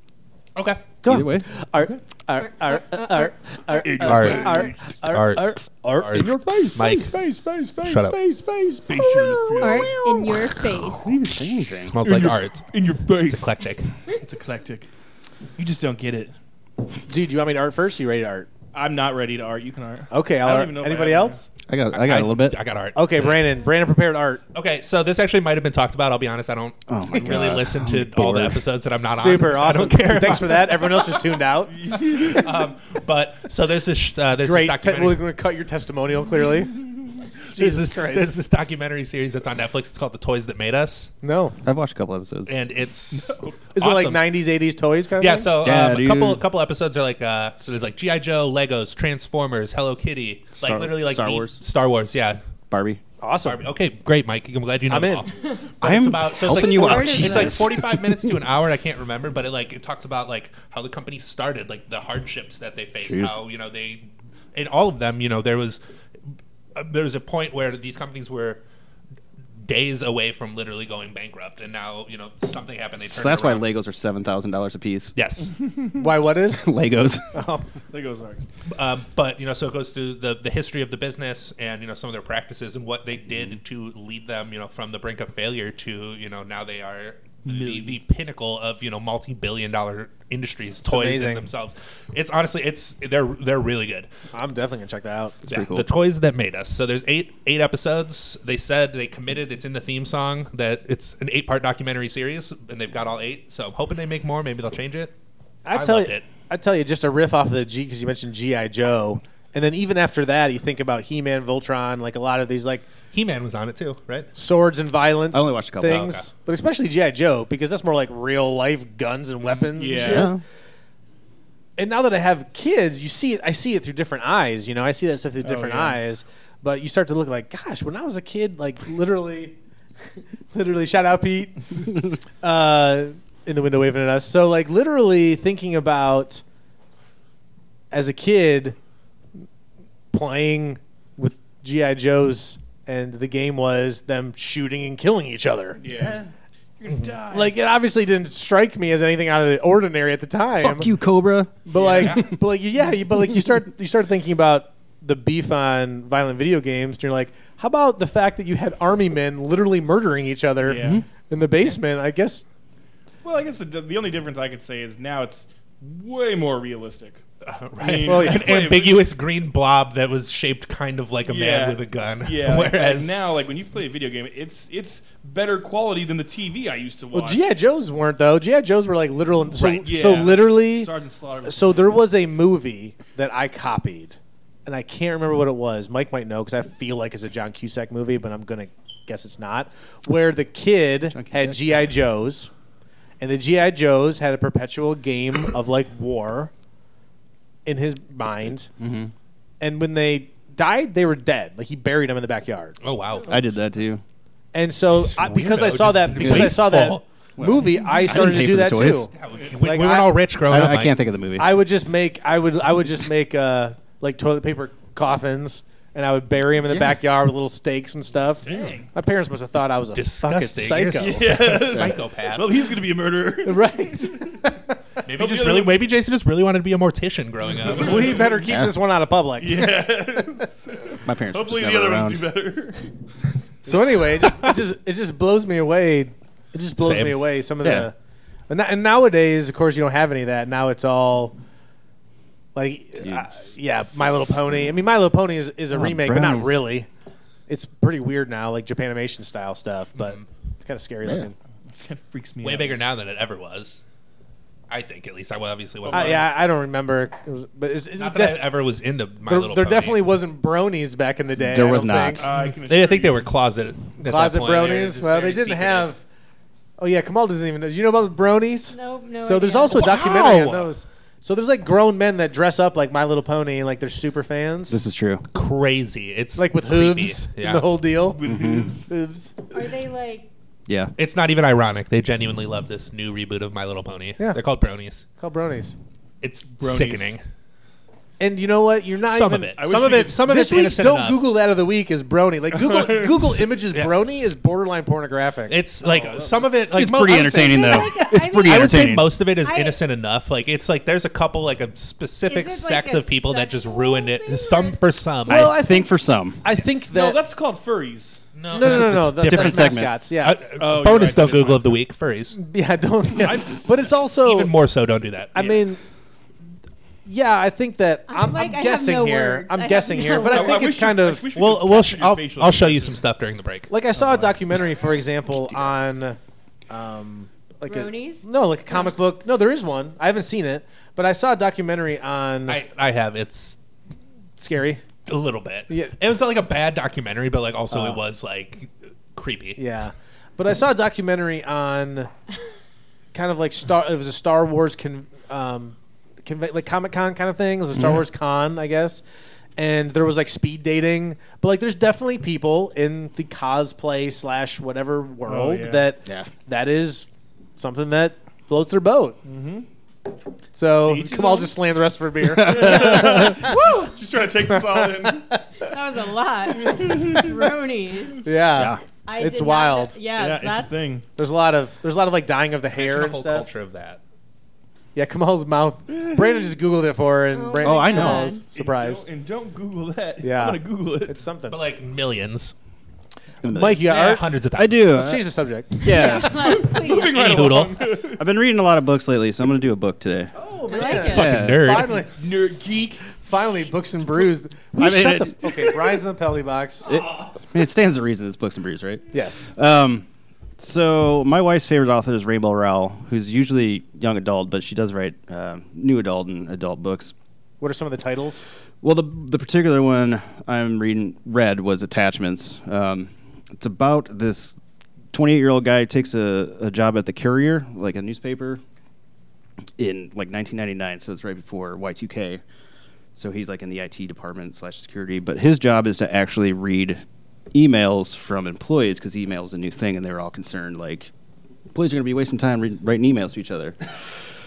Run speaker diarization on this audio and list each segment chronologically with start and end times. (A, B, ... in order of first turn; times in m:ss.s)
0:00.6-0:00.9 A
0:01.0-0:10.1 B
0:01.1-0:01.5 C
0:02.4-0:04.0 D
0:03.8-0:04.8 E
0:04.0-0:07.2 A
0:07.8-0:08.2 A
0:08.9-0:10.1 E
0:09.6-0:11.2 D
0:10.7-0:12.0 C
0:11.8-0:13.9 A
0:12.0-0:14.9 E
0:15.6-0:16.3 E
0:17.1-0:18.5 B
0:18.7-0:21.5 E
0:20.1-0:21.4 B
0:21.7-0:22.6 C
0:21.9-0:23.5 A
0:23.0-0:24.4 B
0:24.5-0:31.2 A
0:26.9-0:28.6 C
0:29.2-0:32.5 B
0:31.7-0:32.4 E
0:32.1-0:35.2 A
0:34.4-0:38.3 B
0:37.5-0:41.1 A
0:41.2-0:41.6 B
0:41.6-0:42.6 C
0:42.5-0:44.3 A
0:43.1-0:43.6 E
0:43.7-0:45.5 B
0:45.2-0:52.4 A
0:45.6-0:46.4 C
0:50.6-0:51.6 C
0:52.7-0:53.0 C
0:53.2-0:53.7 B
0:53.4-1:05.8 A
0:54.9-0:55.3 B
0:55.8-0:58.4 C
0:56.5-0:57.8 D
1:03.0-1:03.4 C
1:06.8-1:08.6 A
1:09.6-1:13.7 A
1:13.0-1:15.2 C
1:15.2-1:15.5 A
1:16.0-1:16.7 B
1:16.5-1:17.4 C
1:17.3-1:17.7 B
1:17.9-1:18.4 E
1:18.7-1:34.1 A
1:27.5-1:28.0 E
1:30.9-1:31.5 B
1:34.3-1:35.4 B
1:35.5-1:35.9 C
1:35.5-1:45.1 A
1:45.6-1:52.9 B
1:45.7-1:46.3 A
1:53.1-1:54.3 A
1:54.3-2:00.3 B
1:55.3-1:56.1 C
1:55.8-1:56.3 A
1:59.7-2:00.3 E
2:00.0-2:00.4 C
2:01.8-2:09.6 B
2:05.4-2:06.0 E
2:10.5-2:16.4 B
2:17.9-2:18.8 B
2:20.1-2:26.2 B
2:25.8-2:27.5 E
2:27.3-2:30.9 B
2:30.6-2:32.2 C
2:31.6-2:42.5 B
2:31.8-2:32.2 E
2:32.0-2:32.2 A
2:40.6-2:41.0 E
2:40.8-2:41.0 C
2:43.2-2:47.2 E
2:47.4-2:53.2 A
2:47.8-2:49.0 E
2:48.0-2:48.5 B
2:51.3-2:57.5 E
2:57.1-3:00.9 B
2:59.8-3:02.0 E
3:01.4-3:12.5 B
3:11.1-3:11.8 C
3:13.2-3:16.5 B
3:17.7-3:18.7 B
3:18.8-3:19.1 C
3:19.6-3:22.8 B
3:22.8-3:23.4 A
3:23.3-3:24.0 C
3:24.5-3:30.2 B
3:24.9-3:27.0 A
3:26.2-3:29.1 C
3:29.1-3:31.0 A
3:30.5-3:31.6 C
3:31.4-3:41.7 B
3:38.4-3:38.9 E
3:40.0-3:42.6 A
3:41.0-3:44.4 E
3:43.4-3:44.8 B
3:45.0-3:48.2 A
3:45.2-3:45.8 E
3:47.7-3:50.5 B
3:47.8-3:48.4 E
3:48.5-3:48.8 C
3:49.4-3:52.9 E
3:51.0-3:52.3 C
3:53.6-3:57.9 B
3:56.8-3:57.3 A
3:57.6-3:57.9 C
3:58.5-4:01.4 B
4:02.6-4:06.9 B
4:03.0-4:03.3 C
4:05.7-4:06.6 C
4:07.5-4:11.4 B
4:10.0-4:10.2 A
4:11.7-4:12.8 E
4:12.4-4:13.8 A
4:14.7-4:16.3 A
4:15.8-4:16.3 E
4:15.9-4:18.5 B
4:18.0-4:20.1 A
4:19.3-4:22.3 B
4:21.4-4:22.4 C
4:22.2-4:23.3 E
4:22.3-4:25.9 A
4:24.0-4:26.0 B
4:26.8-4:34.8 B
4:28.7-4:30.0 D
4:29.7-4:30.7 A
4:34.7-4:35.3 C
4:35.3-4:37.7 A
4:36.4-4:38.2 B
4:38.1-4:38.9 E
4:38.2-4:38.7 C
4:38.9-4:39.5 B
4:39.5-4:40.3 D
4:40.7-4:40.9 C
4:41.0-4:45.1 A
4:45.2-4:45.8 B
4:46.2-4:47.2 A
4:46.6-4:47.1 E
4:48.2-4:55.6 B
4:49.0-4:51.3 A
4:49.6-4:50.2 E
4:52.5-4:53.4 E
4:53.5-4:53.9 A
4:55.5-5:05.6 A
4:55.8-4:56.6 E
4:56.7-4:59.1 C
4:57.3-4:59.8 D
5:02.3-5:04.8 D
5:05.3-5:06.4 C
5:05.3-5:07.2 B
5:06.9-5:08.2 E
5:08.4-5:12.4 A
5:08.5-5:10.4 B
5:08.6-5:09.9 C
5:10.6-5:11.8 E
5:12.3-5:14.6 B
5:13.2-5:13.7 E
5:13.3-5:15.6 A
5:15.3-5:15.8 B
5:17.1-5:21.3 B
5:18.1-5:20.6 D
5:20.3-5:23.0 E
5:21.3-5:23.7 A
5:23.7-5:26.2 B
5:24.0-5:24.3 E
5:26.7-5:32.6 B
5:27.7-5:28.3 D
5:32.5-5:33.6 A
5:34.4-5:34.8 B
5:35.1-5:39.6 A
5:35.7-5:36.0 B
5:37.7-5:38.0 B
5:39.6-5:42.1 B
5:43.1-5:49.0 B
5:49.6-5:57.1 B
5:55.3-5:56.0 E
5:56.0-5:56.3 C
5:57.6-5:59.2 B
5:59.2-5:59.7 E
6:00.5-6:05.7 B
6:00.8-6:01.6 E
6:02.4-6:05.4 E
6:02.4-6:03.4 C
6:05.6-6:08.3 D
6:06.6-6:07.3 B
6:06.6-6:07.3 E
6:08.2-6:10.0 B
6:08.5-6:08.8 C
6:09.1-6:10.9 D
6:10.1-6:11.1 E
6:11.2-6:13.5 B
6:12.7-6:14.0 A
6:15.0-6:19.1 B
6:15.9-6:16.4 E
6:17.3-6:18.4 D
6:17.6-6:18.4 C
6:18.5-6:21.2 E
6:20.2-6:21.6 B
6:21.5-6:22.6 A
6:23.4-6:26.7 C
6:23.4-6:24.3 B
6:23.7-6:24.9 A
6:24.9-6:26.6 B
6:25.9-6:27.4 D
6:26.3-6:28.2 E
6:27.0-6:27.9 A
6:28.1-6:30.4 C
6:30.4-6:32.2 B
6:30.5-6:30.9 E
6:30.7-6:31.3 D
6:30.9-6:32.0 A
6:30.9-6:31.7 C
6:32.0-6:33.2 E
6:33.0-6:36.9 B
6:34.8-6:35.4 C
6:36.9-6:40.1 C
6:39.1-6:39.5 B
6:40.6-6:47.1 C
6:47.6-6:48.4 B
6:48.8-6:54.6 C
6:55.1-6:58.6 C
6:59.8-7:02.4 C
7:03.1-7:07.0 C
7:07.5-7:11.1 C
7:11.7-7:14.1 C